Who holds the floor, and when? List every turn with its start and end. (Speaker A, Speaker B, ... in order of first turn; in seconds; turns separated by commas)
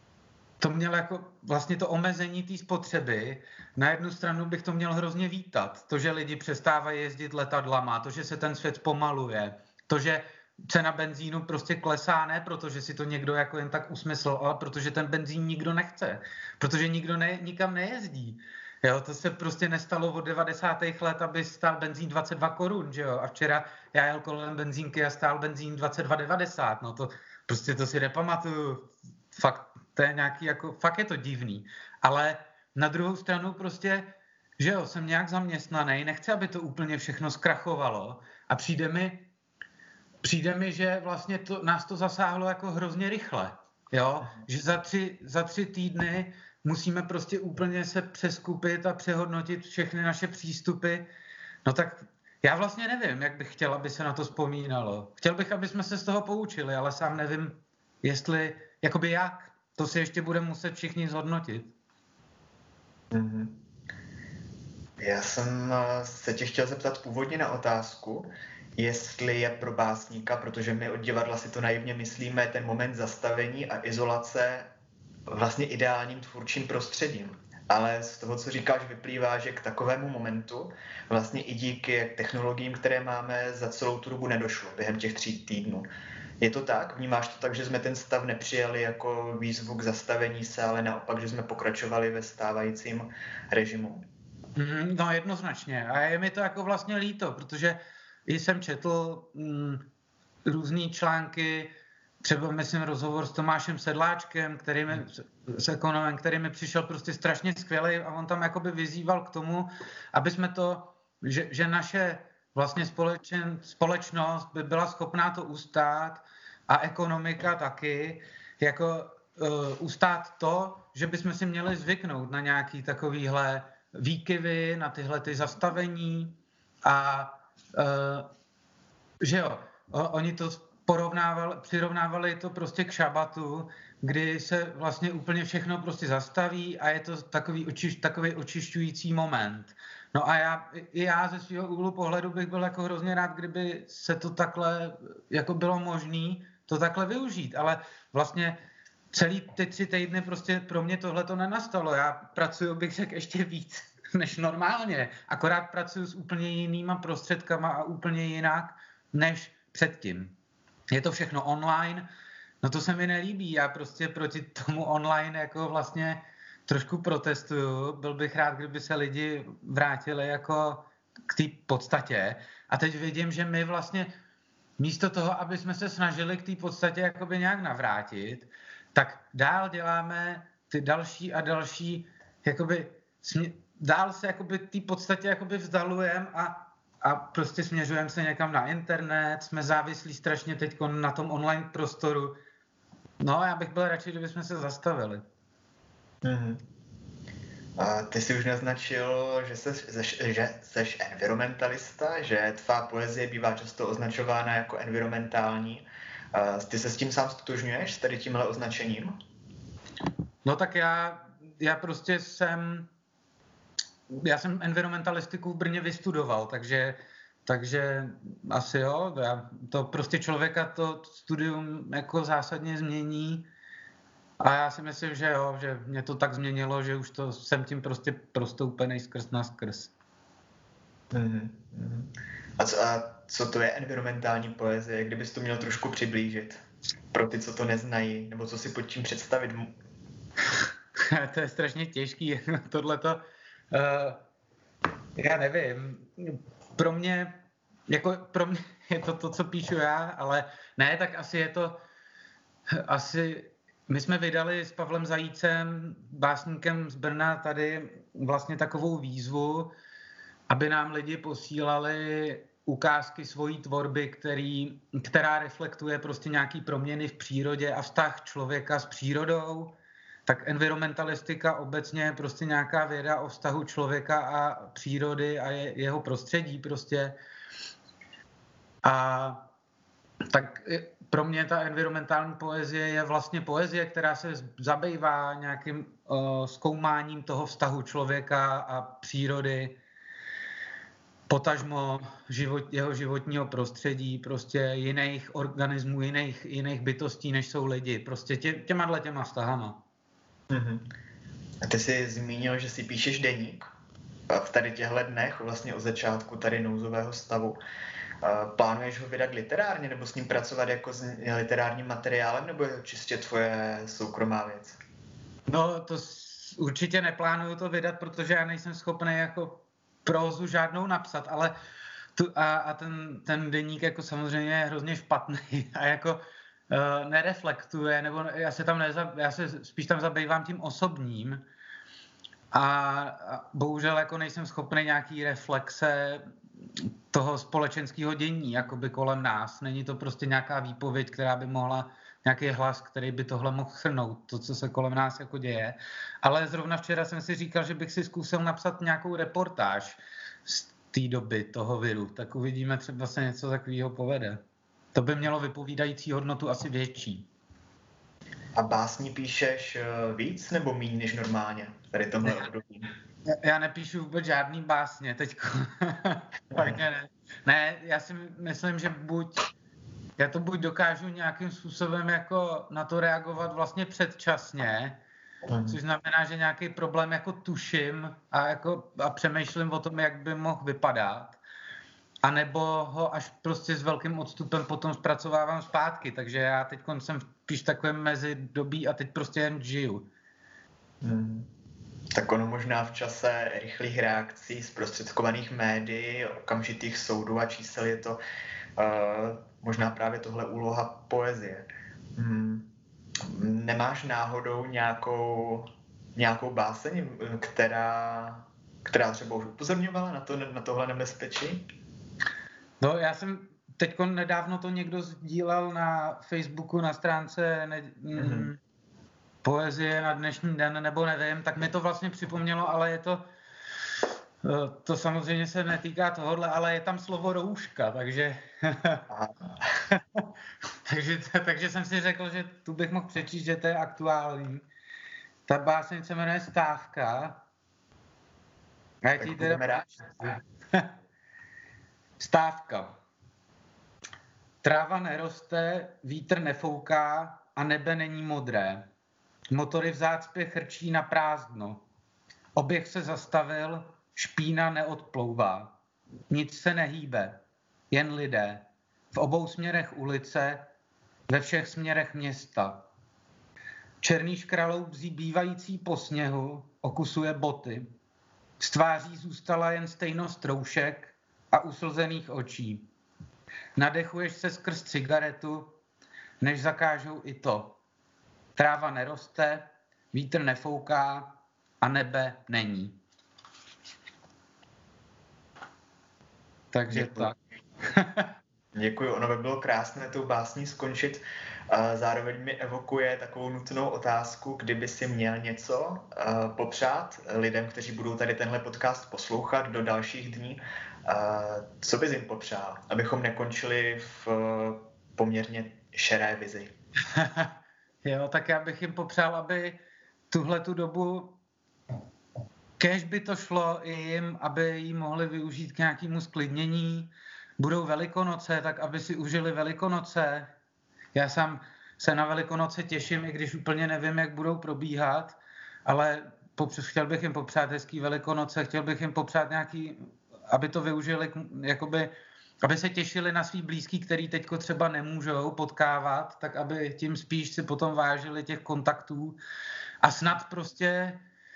Speaker A: 0.6-34.1, Speaker A: 34.6-39.2, Speaker A: 40.2-51.0, Speaker A: 51.6-61.7, Speaker B: 63.1-63.6, Speaker B: 65.0-74.7, Speaker B: 75.3-85.9, Speaker B: 86.4-94.0, Speaker A: 94.5-99.8, Speaker A: 100.5-101.7, Speaker A: 102.2-128.3, Speaker A: 129.2-148.6, Speaker A: 149.1-160.3, Speaker A: 160.9-162.1, Speaker A: 162.6-174.1, Speaker A: 174.8-192.3, Speaker A: 193.2-195.2, Speaker B: 196.2-196.6, Speaker B: 197.8-209.1, Speaker A: 210.4-212.9, Speaker A: 214.1-223.4, Speaker A: 224.4-229.9, Speaker B: 231.1-236.6, Speaker B: 237.1-239.7, Speaker A: 241.0-243.2, Speaker A: 243.7-244.2, Speaker A: 245.2-247.4, Speaker A: 247.9-251.8, Speaker A: 252.7-259.7, Speaker A: 260.5-269.7, Speaker A: 270.2-277.1, Speaker A: 278.8-279.4, Speaker A: 280.3-289.8, Speaker A: 291.3-299.8, Speaker B: 300.5-300.8, Speaker B: 301.6-303.7, Speaker B: 304.3-307.6, Speaker B: 308.2-314.8, Speaker A: 315.5-321.5, Speaker A: 322.1-331.4, Speaker A: 332.5-336.2, Speaker A: 337.1-354.4, Speaker A: 354.9-357.3, Speaker B: 358.5-362.9, Speaker A: 363.3-369.4, Speaker B: 366.5-366.8, Speaker A: 370.2-375.0, Speaker B: 375.5-375.8, Speaker A: 375.7-381.4, Speaker A: 382.2-390.1, Speaker B: 391.0-391.5, Speaker B: 392.1-398.2, Speaker B: 398.8-402.7, Speaker B: 403.2-411.6, Speaker A: 412.8-418.6, Speaker B: 418.2-418.5, Speaker A: 419.4-423.2, Speaker A: 424.4-429.1, Speaker B: 429.1-429.6, Speaker A: 429.9-430.2, Speaker A: 430.9-434.6, Speaker A: 435.5-437.4, Speaker A: 439.0-440.9, Speaker B: 439.2-440.0, Speaker A: 442.2-442.9, Speaker A: 444.6-448.8, Speaker A: 449.5-451.8, Speaker A: 452.5-455.7, Speaker A: 456.3-457.4, Speaker A: 457.9-460.7, Speaker A: 461.3-462.8, Speaker A: 464.0-467.8, Speaker A: 468.6-472.9, Speaker A: 473.8-475.8, Speaker A: 476.4-477.8, Speaker A: 478.6-483.0, Speaker A: 486.7-487.4, Speaker B: 486.9-487.3, Speaker A: 487.9-488.3, Speaker B: 488.7-506.7, Speaker A: 507.1-507.5, Speaker A: 508.0-509.8, Speaker A: 510.3-511.3, Speaker A: 512.8-520.5, Speaker A: 521.1-530.0, Speaker A: 530.5-532.1, Speaker A: 532.6-539.4, Speaker A: 540.0-541.2